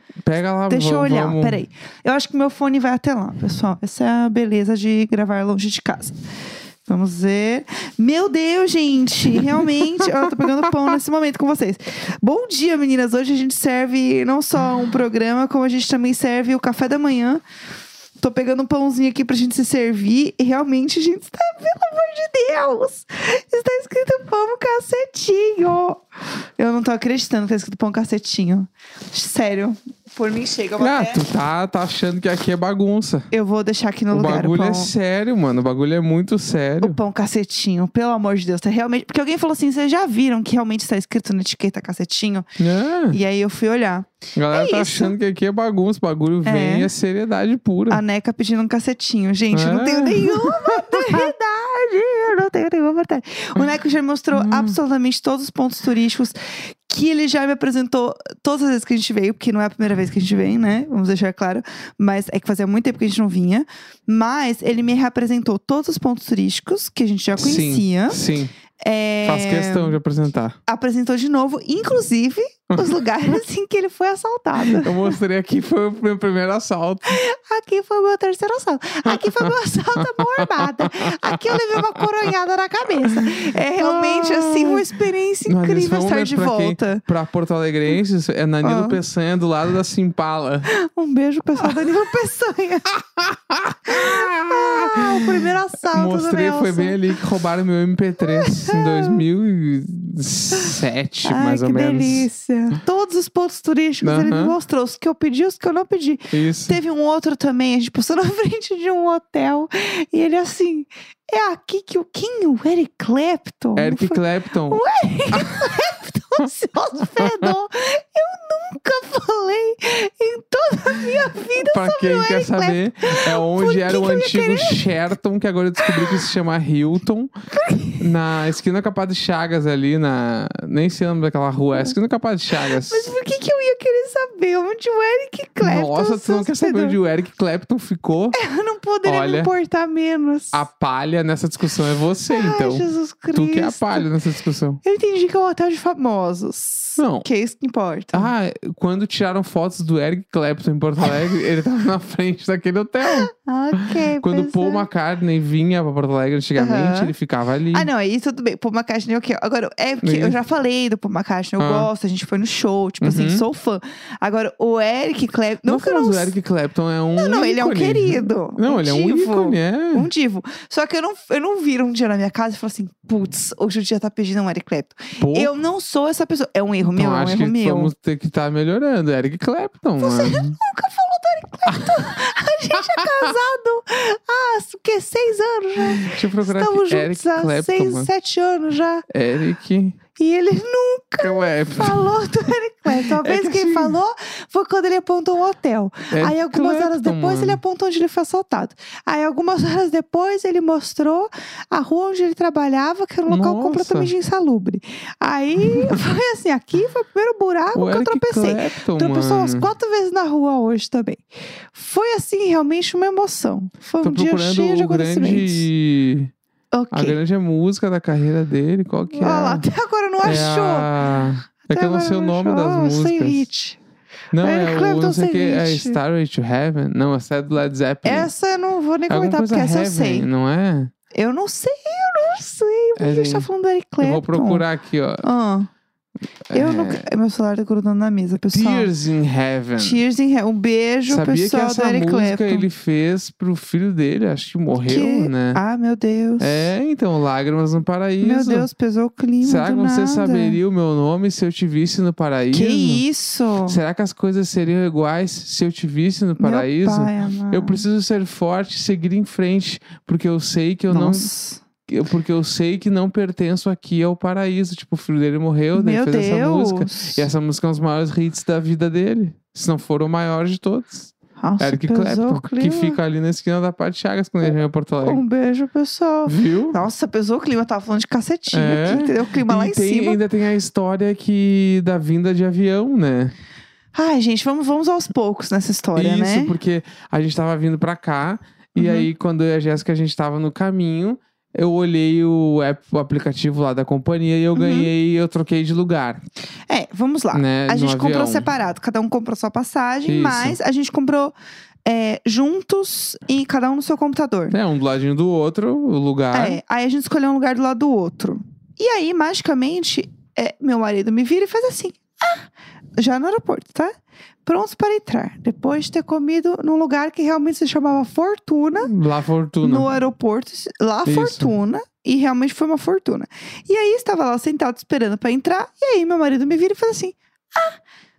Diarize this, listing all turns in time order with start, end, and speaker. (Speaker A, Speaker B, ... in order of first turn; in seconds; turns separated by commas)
Speaker A: 0.2-1.6, Speaker B: 0.7-6.2, Speaker B: 6.9-17.4, Speaker B: 18.2-26.0, Speaker B: 26.6-31.2, Speaker A: 30.8-33.3, Speaker B: 33.3-34.9, Speaker A: 34.1-37.0, Speaker B: 36.8-42.5, Speaker A: 42.6-43.2, Speaker B: 43.1-45.1, Speaker A: 44.4-48.0, Speaker B: 46.4-46.9, Speaker B: 47.9-56.4, Speaker A: 49.5-51.3, Speaker A: 54.3-54.8, Speaker B: 56.9-68.2, Speaker A: 67.4-68.5, Speaker B: 68.8-70.0, Speaker A: 69.2-70.6, Speaker B: 70.7-75.2, Speaker A: 72.7-73.4, Speaker A: 74.6-77.2, Speaker B: 77.1-87.0, Speaker A: 79.1-79.5, Speaker A: 80.0-82.1, Speaker A: 83.2-84.9, Speaker A: 85.5-90.7, Speaker B: 88.6-89.0, Speaker B: 90.7-92.9, Speaker A: 91.6-92.1, Speaker A: 93.0-95.0, Speaker B: 93.9-97.0, Speaker A: 95.9-102.3, Speaker B: 98.2-99.2, Speaker B: 100.5-124.9, Speaker A: 104.0-104.6, Speaker A: 106.3-106.8, Speaker A: 113.8-114.8, Speaker A: 115.3-115.7, Speaker A: 117.1-117.5, Speaker A: 121.6-127.3, Speaker B: 125.8-126.2, Speaker B: 127.5-128.1, Speaker A: 128.0-133.1, Speaker B: 132.5-137.0, Speaker A: 135.6-138.4, Speaker B: 138.3-140.6, Speaker A: 139.1-139.5, Speaker A: 140.5-144.8, Speaker B: 142.3-144.1, Speaker B: 144.8-148.3, Speaker A: 147.0-147.3, Speaker A: 148.1-153.3, Speaker B: 153.1-154.9, Speaker A: 154.2-157.9, Speaker B: 156.6-157.1, Speaker B: 157.7-166.3, Speaker A: 160.0-160.4, Speaker A: 161.6-161.9, Speaker A: 163.0-163.4, Speaker A: 165.7-170.1, Speaker B: 167.1-177.9, Speaker A: 175.2-175.5, Speaker A: 176.9-180.6, Speaker B: 180.0-189.1, Speaker A: 181.7-182.1, Speaker A: 186.0-188.1, Speaker A: 189.1-190.0, Speaker B: 190.2-215.7, Speaker A: 191.2-192.1, Speaker A: 192.9-194.0, Speaker A: 196.1-197.6, Speaker A: 203.3-204.1, Speaker A: 207.8-209.7, Speaker A: 214.0-216.3, Speaker B: 216.7-217.2, Speaker A: 216.9-219.7, Speaker B: 219.2-220.9, Speaker A: 220.2-223.5, Speaker B: 221.7-223.8, Speaker A: 224.3-228.3, Speaker B: 224.4-226.0, Speaker B: 228.0-230.3, Speaker A: 229.1-230.9, Speaker B: 231.1-234.7, Speaker A: 233.0-233.5, Speaker A: 234.0-235.2, Speaker B: 235.2-235.7, Speaker A: 236.5-237.1, Speaker B: 236.5-238.9, Speaker A: 238.5-240.0, Speaker B: 239.8-242.7, Speaker A: 241.1-245.6, Speaker B: 244.7-246.7, Speaker A: 246.4-248.7, Speaker B: 248.2-250.6, Speaker A: 249.4-253.0, Speaker B: 252.5-253.8, Speaker A: 253.7-261.3, Speaker B: 256.4-257.8, Speaker B: 260.9-261.6, Speaker A: 261.9-275.2, Speaker B: 265.7-267.2, Speaker B: 271.4-273.0, Speaker B: 274.4-280.2, Speaker A: 276.3-276.8, Speaker A: 278.5-283.4, Speaker B: 283.9-286.5, Speaker A: 285.9-296.2, Speaker B: 288.8-289.1, Speaker B: 294.6-294.9, Speaker B: 296.7-301.4, Speaker A: 297.3-298.5, Speaker A: 300.1-300.6, Speaker B: 301.9-304.6, Speaker A: 304.5-306.6, Speaker B: 306.3-313.9, Speaker B: 314.4-318.9, Speaker A: 318.8-319.9, Speaker B: 319.6-327.8, Speaker A: 321.1-321.5